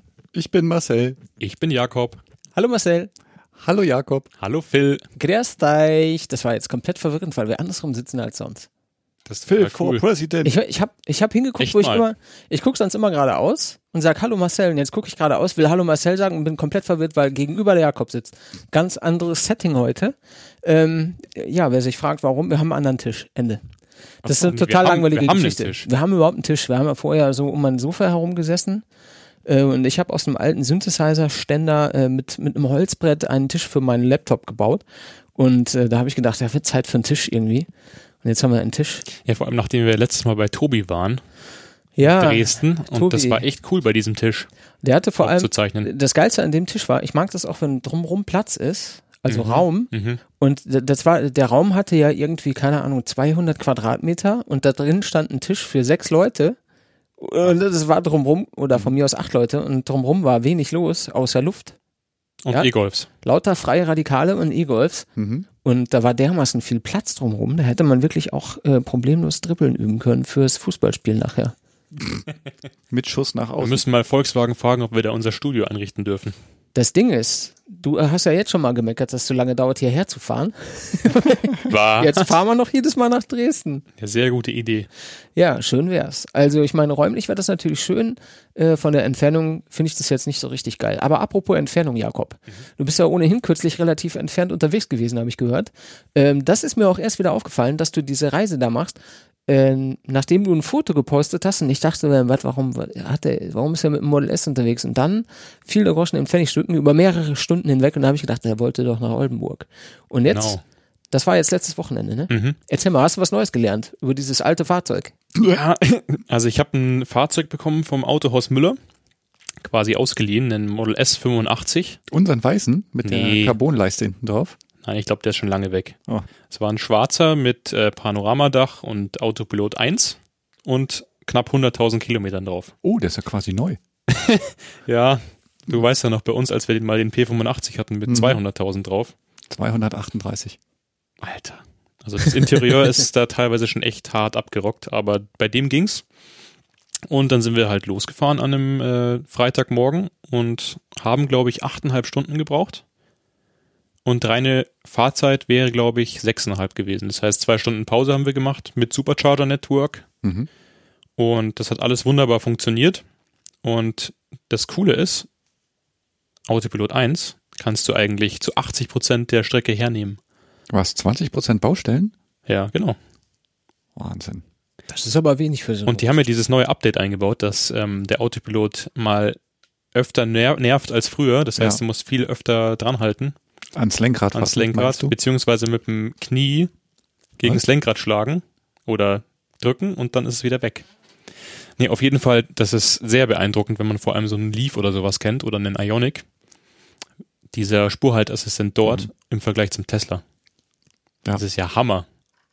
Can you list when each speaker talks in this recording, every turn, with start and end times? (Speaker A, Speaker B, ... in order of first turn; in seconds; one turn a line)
Speaker A: 0.3-1.2
Speaker B: 1.4-2.2
Speaker C: 2.5-3.1
Speaker A: 3.6-4.3
Speaker B: 4.4-5.0
Speaker C: 5.2-8.7
Speaker B: 9.3-10.0
Speaker A: 9.5-10.5
Speaker C: 10.4-23.6
Speaker B: 11.6-12.0
Speaker B: 24.2-25.9
Speaker C: 24.2-28.8
Speaker C: 29.4-34.8
Speaker C: 35.4-37.7
Speaker C: 38.2-39.1
Speaker B: 39.2-41.2
Speaker C: 42.0-43.4
Speaker B: 42.0-44.5
Speaker C: 44.8-56.6
Speaker B: 45.2-45.9
Speaker B: 49.3-50.2
Speaker C: 57.2-61.8
Speaker B: 62.4-63.1
Speaker C: 63.2-65.1
Speaker A: 65.2-65.5
Speaker C: 65.6-71.5
Speaker A: 72.9-73.8
Speaker B: 73.6-76.4
Speaker C: 76.8-83.8
Speaker B: 81.7-82.3
Speaker B: 84.0-84.9
Speaker C: 85.4-110.6
Speaker B: 110.3-110.6
Speaker C: 111.1-115.1
Speaker B: 112.3-112.6
Speaker B: 115.4-118.8
Speaker B: 119.6-122.0
Speaker A: 122.1-124.6
Speaker B: 123.0-123.6
Speaker B: 124.8-126.0
Speaker B: 126.5-132.7
Speaker A: 132.8-133.8
Speaker B: 134.1-139.1
Speaker A: 138.1-138.4
Speaker A: 139.5-140.6
Speaker B: 141.2-146.0
Speaker B: 147.1-152.8
Speaker B: 154.1-160.1
Speaker B: 161.2-163.0
Speaker B: 163.6-165.3
Speaker B: 166.5-170.2
Speaker A: 170.7-172.1
Speaker B: 172.5-173.0
Speaker A: 174.0-174.4
Speaker C: 174.9-176.1
Speaker B: 175.9-179.4
Speaker B: 179.9-183.4
Speaker A: 183.8-185.1
Speaker B: 184.3-186.7
Speaker B: 187.4-190.9
Speaker B: 191.8-196.2
Speaker B: 197.5-200.2
Speaker B: 201.3-202.1